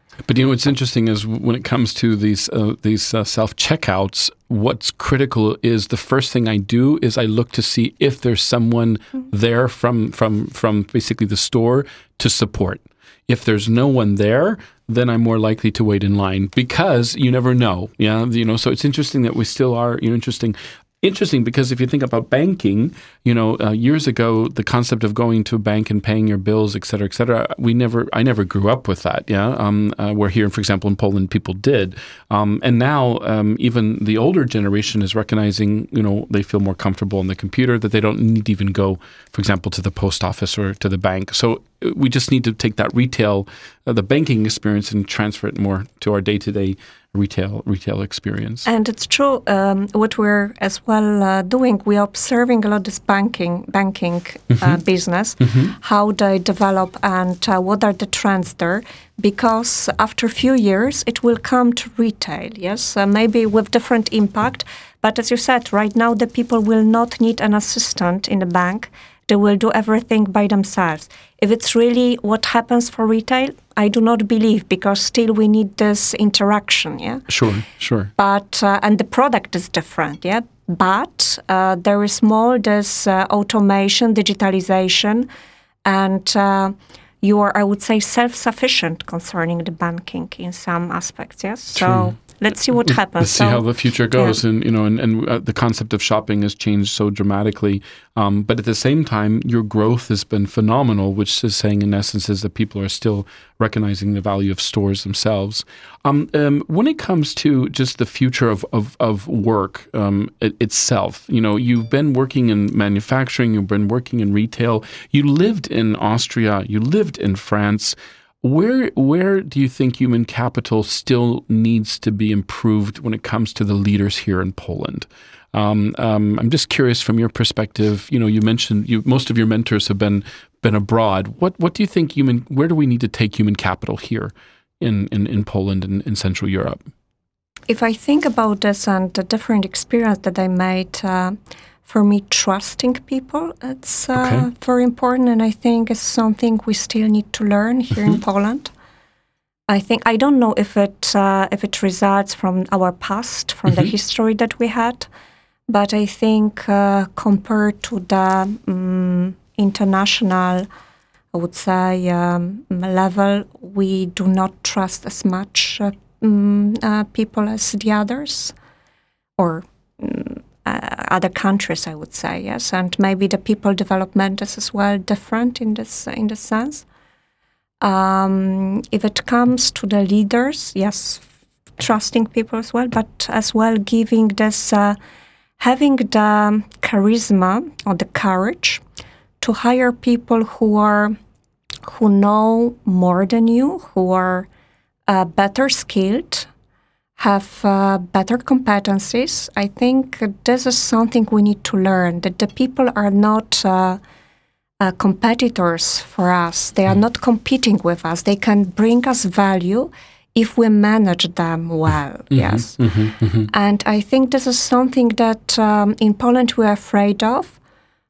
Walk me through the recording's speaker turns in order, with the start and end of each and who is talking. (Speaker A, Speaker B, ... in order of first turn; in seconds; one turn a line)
Speaker A: 0.2-48.7
Speaker B: 48.7-77.3
Speaker A: 77.3-78.1
Speaker B: 78.2-85.3
Speaker B: 85.9-94.4
Speaker A: 91.8-92.2
Speaker A: 92.8-136.8
Speaker B: 137.7-148.7
Speaker A: 144.2-144.5
Speaker B: 149.7-155.1
Speaker B: 155.7-160.7
Speaker B: 161.3-168.6
Speaker B: 169.4-176.8
Speaker B: 177.8-181.2
Speaker B: 181.8-185.0
Speaker B: 185.6-188.8
Speaker B: 189.4-191.2
Speaker B: 191.9-194.5
Speaker B: 195.1-196.5
Speaker B: 197.2-204.0
Speaker B: 204.8-212.8
Speaker A: 212.3-213.5
Speaker B: 213.4-217.6